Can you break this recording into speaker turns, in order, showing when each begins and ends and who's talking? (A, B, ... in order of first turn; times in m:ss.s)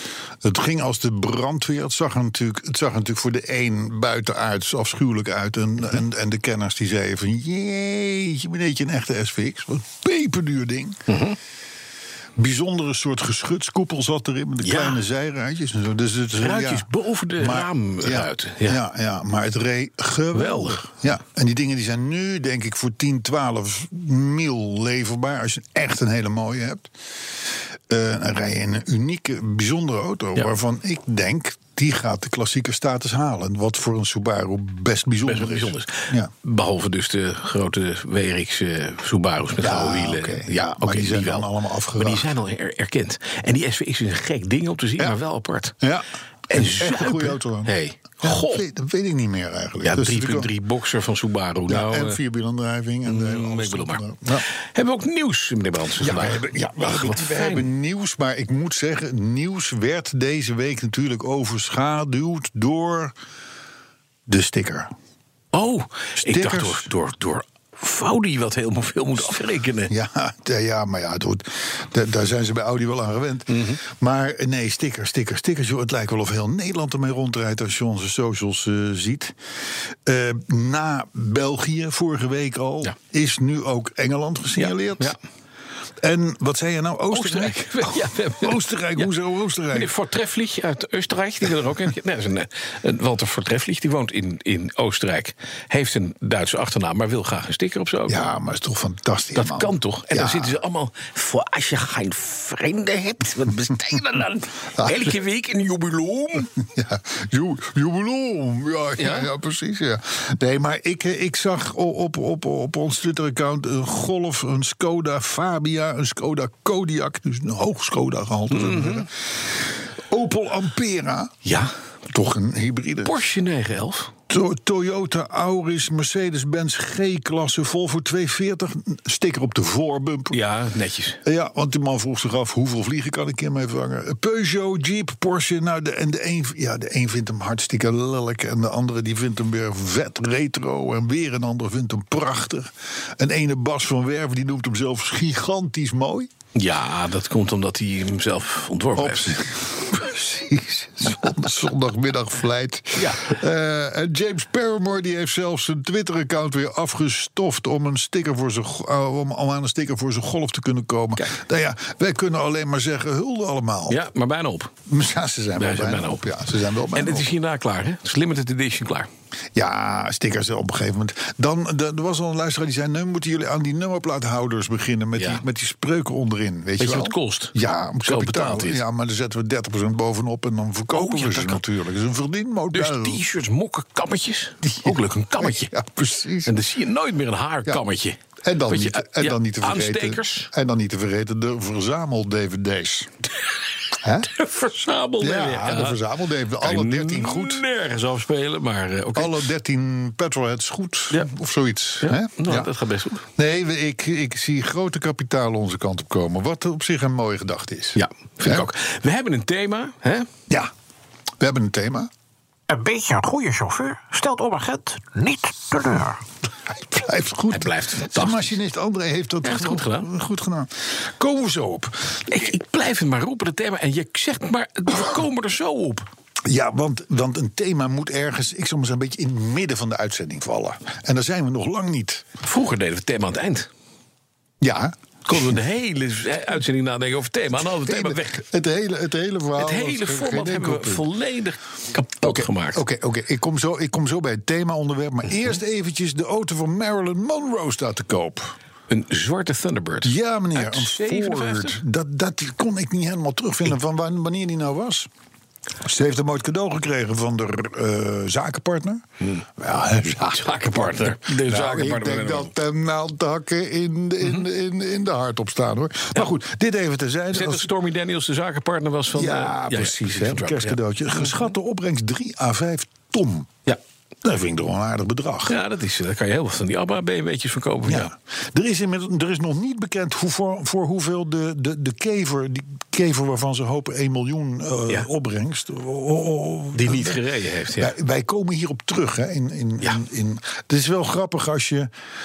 0:00.4-0:11.0 A
0:11.1-0:11.4 B
0:12.4-0:26.9 A
0:14.6-0:15.0 B
0:16.4-0:18.8 B
0:20.3-0:20.8 B
0:27.9-0:36.3 A
0:35.2-0:45.8 B
0:39.6-0:42.3 A
0:45.8-0:50.5 A
0:46.5-0:48.6 B
0:49.8-0:52.2 B
0:51.7-0:54.5 A
0:53.0-0:57.7 B
0:56.0-1:03.1 A
1:04.3-1:04.9 A
1:05.5-1:09.9 B
1:06.2-1:06.9 A
1:09.9-1:19.4 A
1:13.5-1:13.8 B
1:20.0-1:25.2 A
1:24.6-1:25.2 B
1:26.0-1:29.9 A
1:27.1-1:29.1 B
1:29.7-1:38.2 B
1:38.1-1:40.6 A
1:39.3-1:46.5 B
1:44.7-1:45.1 A
1:46.6-2:01.3 A
1:49.0-1:49.3 B
1:58.5-1:59.1 B
2:01.4-2:01.7 B
2:02.1-2:03.2 A
2:03.0-2:04.1 B
2:04.3-2:10.4 A
2:10.3-2:11.2 B
2:11.2-2:26.3 A
2:26.5-2:29.4 B
2:29.0-2:44.0 A
2:33.0-2:33.2 B
2:43.9-2:44.7 B
2:44.9-2:47.3 A
2:45.6-2:46.3 B
2:46.9-2:49.1 B
2:49.5-3:03.2 A
2:55.2-2:55.4 B
2:56.8-2:58.8 B
3:00.9-3:01.6 B
3:02.7-3:05.7 B
3:04.6-3:06.6 A
3:06.4-3:10.5 B
3:08.4-3:13.1 A
3:14.0-3:14.3 A
3:14.2-3:16.0 B
3:15.2-3:17.6 A
3:16.6-3:19.5 B
3:19.1-3:22.7 A
3:22.0-3:23.2 B
3:23.4-3:28.7 A
3:27.9-3:30.3 B
3:31.4-3:32.1 A
3:32.7-3:36.2 C
3:36.7-3:42.4 A
3:37.5-3:38.6 B
3:39.4-3:40.1 B
3:42.3-3:46.1 B
3:46.4-3:52.2 A
3:52.4-3:53.7 B
3:54.6-3:55.6 A
3:55.3-3:58.4 B
3:57.7-4:01.1 A
3:59.6-4:02.8 B
4:02.2-4:08.5 A
4:08.9-4:11.8 B
4:10.0-4:15.1 A
4:15.8-4:19.0 A
4:19.6-4:27.7 A
4:20.2-4:22.5 B
4:27.3-4:31.5 B
4:29.1-4:33.6 A
4:34.2-4:35.6 A
4:35.4-4:38.1 B
4:37.8-4:47.2 A
4:46.7-4:47.9 B
4:47.8-4:51.9 A